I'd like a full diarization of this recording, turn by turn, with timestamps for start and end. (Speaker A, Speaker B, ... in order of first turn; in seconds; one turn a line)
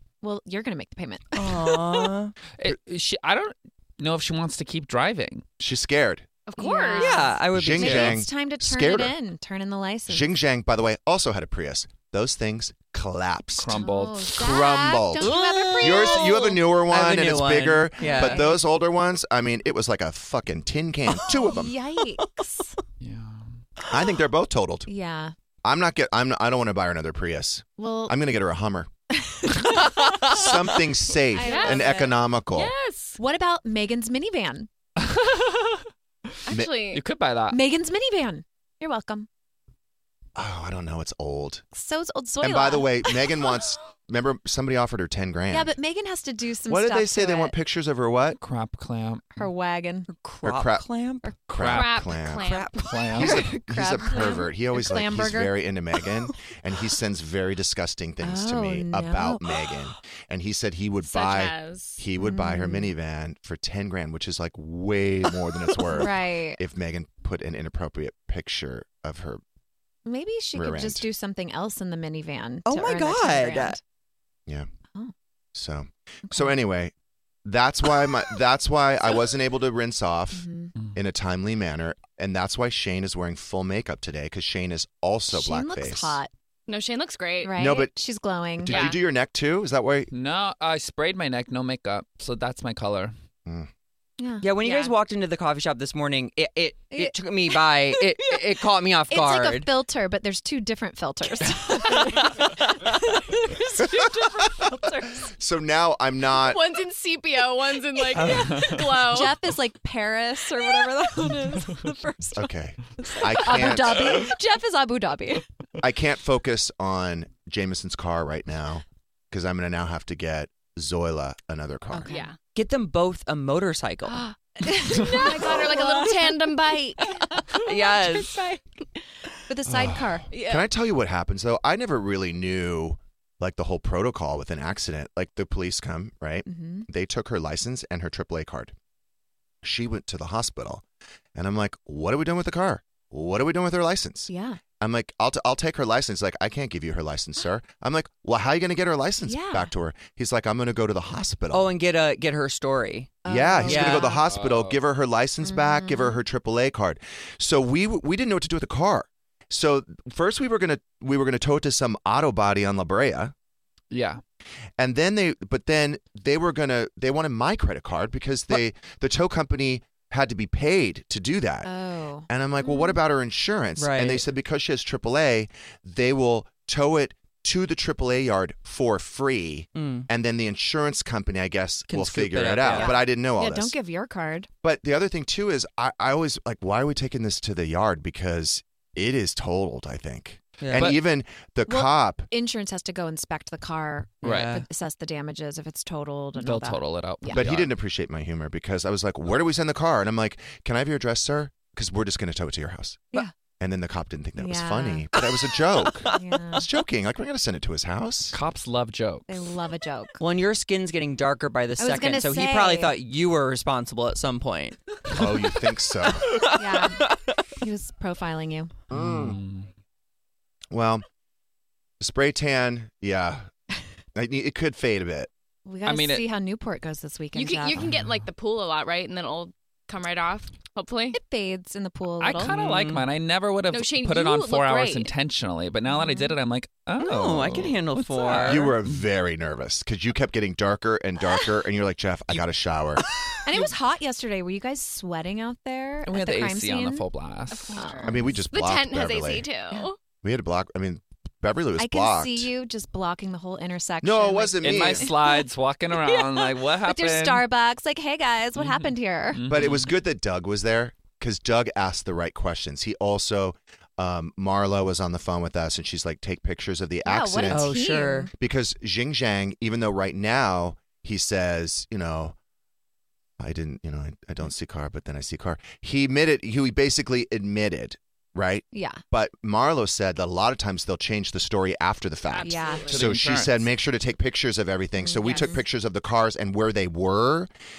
Speaker A: 0.2-2.1
Speaker B: 1.4-2.3
Speaker C: 2.6-5.4
Speaker D: 5.6-6.3
Speaker E: 6.5-7.3
Speaker A: 6.6-10.3
Speaker B: 7.0-8.2
Speaker D: 7.5-9.1
Speaker D: 10.1-21.7
Speaker C: 13.6-14.4
Speaker A: 13.8-16.6
Speaker B: 15.2-18.5
Speaker A: 18.0-18.6
Speaker B: 21.2-21.5
Speaker A: 21.4-22.7
Speaker C: 23.0-23.5
Speaker D: 23.9-24.9
Speaker A: 24.9-25.3
Speaker D: 25.6-28.9
Speaker A: 27.8-28.1
Speaker A: 29.2-30.5
Speaker B: 29.8-30.5
Speaker D: 30.2-32.7
Speaker A: 31.3-32.2
Speaker E: 31.4-31.9
Speaker E: 32.5-33.2
Speaker A: 33.2-34.7
Speaker C: 35.0-35.8
Speaker E: 36.5-37.0
Speaker D: 36.5-36.7
Speaker C: 36.9-37.6
Speaker A: 37.5-39.3
Speaker D: 40.4-41.6
Speaker A: 41.7-43.2
Speaker D: 42.4-45.7
Speaker A: 45.5-47.5
Speaker D: 46.7-48.4
Speaker C: 48.4-49.5
Speaker A: 49.3-50.1
Speaker B: 50.2-51.3
Speaker D: 50.4-52.6
Speaker C: 51.5-52.0
Speaker E: 51.7-52.8
Speaker B: 52.4-53.0
Speaker C: 52.8-53.4
Speaker D: 53.1-69.4
Speaker A: 53.2-55.6
Speaker A: 58.2-59.6
Speaker E: 61.0-62.0
Speaker A: 62.2-62.9
Speaker A: 65.9-66.6
Speaker A: 70.0-73.8
Speaker D: 70.5-71.0
Speaker B: 72.7-73.8
Speaker D: 75.5-76.9
Speaker A: 76.3-76.5
Speaker D: 77.4-86.2
Speaker A: 80.3-80.7
Speaker A: 85.3-86.3
Speaker E: 86.7-87.5
Speaker A: 87.4-88.8
Speaker D: 87.5-87.9
Speaker D: 88.6-90.1
Speaker E: 88.7-89.0
Speaker C: 90.1-93.1
Speaker A: 94.2-94.9
Speaker B: 94.4-99.7
Speaker A: 96.9-98.4
Speaker A: 99.1-105.3
Speaker D: 105.3-106.7
Speaker E: 106.3-109.3
Speaker C: 108.1-109.0
Speaker A: 109.0-115.4
Speaker D: 112.3-114.3
Speaker D: 115.8-122.1
Speaker A: 121.9-122.3
Speaker E: 122.1-122.4
Speaker B: 122.5-124.2
Speaker A: 124.1-128.6
Speaker E: 125.0-128.2
Speaker B: 127.6-128.3
Speaker A: 129.4-130.3
Speaker D: 129.7-138.7
Speaker E: 130.3-130.7
Speaker A: 136.4-136.9
Speaker D: 139.6-140.8
Speaker D: 141.3-151.7
Speaker A: 144.3-144.6
Speaker A: 149.2-149.7
Speaker B: 151.5-154.1
Speaker A: 153.2-154.2
Speaker D: 153.3-163.3
Speaker C: 154.2-154.8
Speaker A: 155.4-156.2
Speaker C: 163.9-164.2
Speaker D: 164.8-171.7
Speaker A: 171.6-173.0
Speaker D: 172.3-183.7
Speaker B: 173.8-174.2
Speaker B: 179.8-180.1
Speaker B: 181.9-182.9
Speaker A: 182.7-184.5
Speaker D: 184.6-192.3
Speaker B: 190.6-190.9
Speaker C: 190.7-191.0
Speaker A: 191.7-197.4
Speaker B: 194.2-194.6
Speaker C: 194.2-194.6
Speaker C: 196.3-197.7
Speaker D: 197.3-208.4
Speaker A: 204.4-205.1
Speaker A: 206.1-206.7
Speaker C: 208.3-209.4
Speaker A: 209.3-210.2
Speaker B: 210.2-214.8
Speaker A: 211.8-212.9
Speaker D: 215.1-216.4
Speaker B: 216.2-217.3
Speaker A: 216.5-217.1
Speaker A: 217.6-218.7
Speaker D: 218.9-219.4
Speaker C: 218.9-219.7
Speaker D: 220.7-221.0
Speaker D: 222.0-223.5
Speaker D: 224.1-225.3
Speaker A: 225.6-227.8
Speaker C: 225.8-226.2
Speaker E: 227.3-231.2
Speaker C: 227.8-228.2
Speaker A: 231.1-232.5
Speaker C: 232.2-239.0
Speaker B: 232.5-233.1
Speaker E: 233.7-235.1
Speaker A: 235.8-236.3
Speaker B: 237.0-238.7
Speaker D: 238.4-243.0
Speaker A: 243.4-247.0
Speaker C: 246.1-247.8
Speaker E: 247.5-250.0
Speaker A: 247.7-248.4
Speaker D: 248.0-249.5
Speaker D: 250.2-252.5
Speaker A: 251.8-255.4
Speaker D: 254.0-255.1
Speaker C: 254.6-257.4
Speaker A: 256.0-259.4
Speaker C: 258.6-259.9
Speaker D: 259.4-267.8
Speaker A: 267.0-268.3
Speaker B: 267.5-268.3
Speaker D: 268.4-272.4
Speaker D: 273.4-287.5
Speaker A: 278.7-279.0
Speaker E: 282.2-283.1
Speaker A: 282.4-282.9
Speaker C: 282.9-283.7
Speaker A: 285.0-285.6
Speaker E: 285.2-285.6